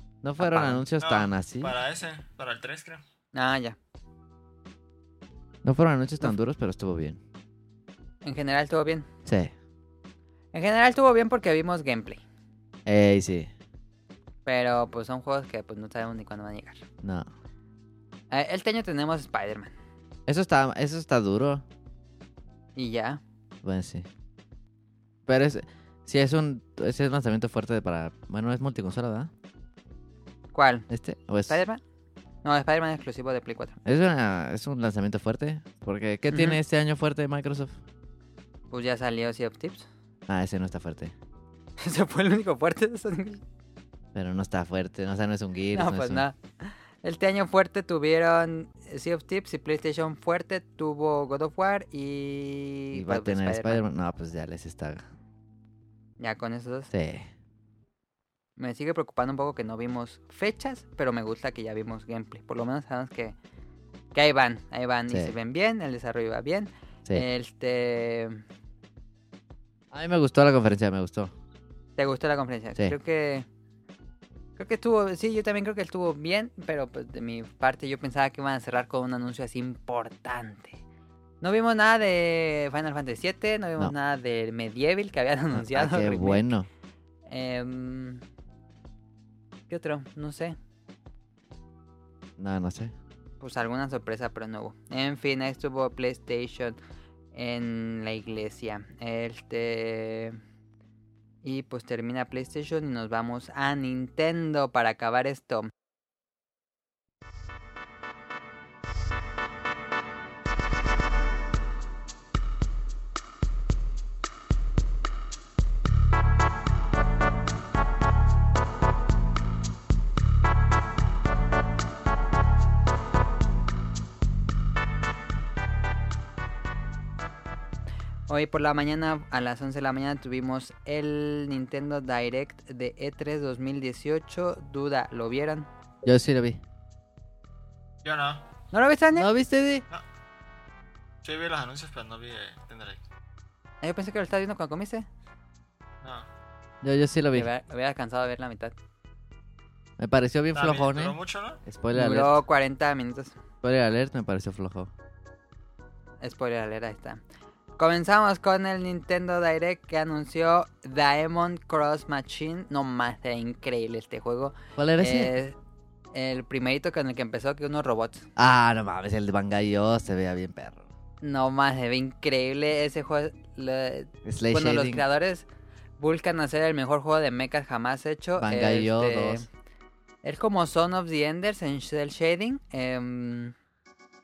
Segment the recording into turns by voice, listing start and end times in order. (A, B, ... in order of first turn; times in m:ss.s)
0:00.2-0:01.7 A
0:00.4-0:00.8 B
0:01.0-0:03.0 C
0:03.3-0:03.8 B
0:05.6-0:07.2 A
0:08.2-0:09.1 B
0:09.2-0:09.5 A
0:10.5-0:12.2 B
0:12.8-0:13.5 A
0:14.4-0:16.8 B
0:17.0-0:17.3 A
0:18.3-0:19.7 B
0:20.3-0:21.6 A
0:22.8-0:23.2 B
0:23.6-0:24.1 A
0:25.3-0:29.3 A
0:30.5-0:30.9 B
0:30.9-0:31.6 A
0:31.5-0:31.8 B
0:32.4-0:33.8 B
0:33.8-0:37.7 A
0:36.3-0:36.6 B
0:38.7-0:39.9 B
0:40.3-0:41.1 A
0:41.8-0:43.4 B
0:44.1-0:46.2 A
0:45.7-0:53.8 B
0:52.9-0:55.1 A
0:56.2-0:56.9 B
0:56.9-0:57.3 A
0:58.6-1:03.4 B
1:04.1-1:08.4 B
1:05.1-1:05.3 A
1:09.9-1:11.3 A
1:12.0-1:13.4 B
1:14.6-1:20.8 B
1:21.4-1:26.4 B
1:25.5-1:26.7 A
1:27.3-1:28.2 B
1:29.7-1:30.6 B
1:32.4-1:32.9 A
1:33.4-1:36.8 B
1:37.3-1:40.4 B
1:41.4-1:45.7 B
2:08.3-2:15.7 B
2:16.0-2:16.6 A
2:18.0-2:18.4 C
2:18.7-2:19.3 B
2:19.1-2:19.8 A
2:21.2-2:23.0 C
2:23.8-2:25.1 B
2:26.0-2:26.3 C
2:26.8-2:27.5 A
2:27.3-2:28.7 B
2:30.0-2:32.4 A
2:30.5-2:31.6 C
2:31.9-2:33.3 B
2:33.6-2:34.9 A
2:36.2-2:37.2 B
2:37.8-2:45.6 B
2:44.8-2:45.3 A
2:46.1-2:48.3 B
2:48.4-2:50.9 A
2:51.2-2:55.4 B
2:54.2-2:55.0 A
2:56.0-2:59.5 B
2:58.4-2:59.4 A
3:00.2-3:03.5 B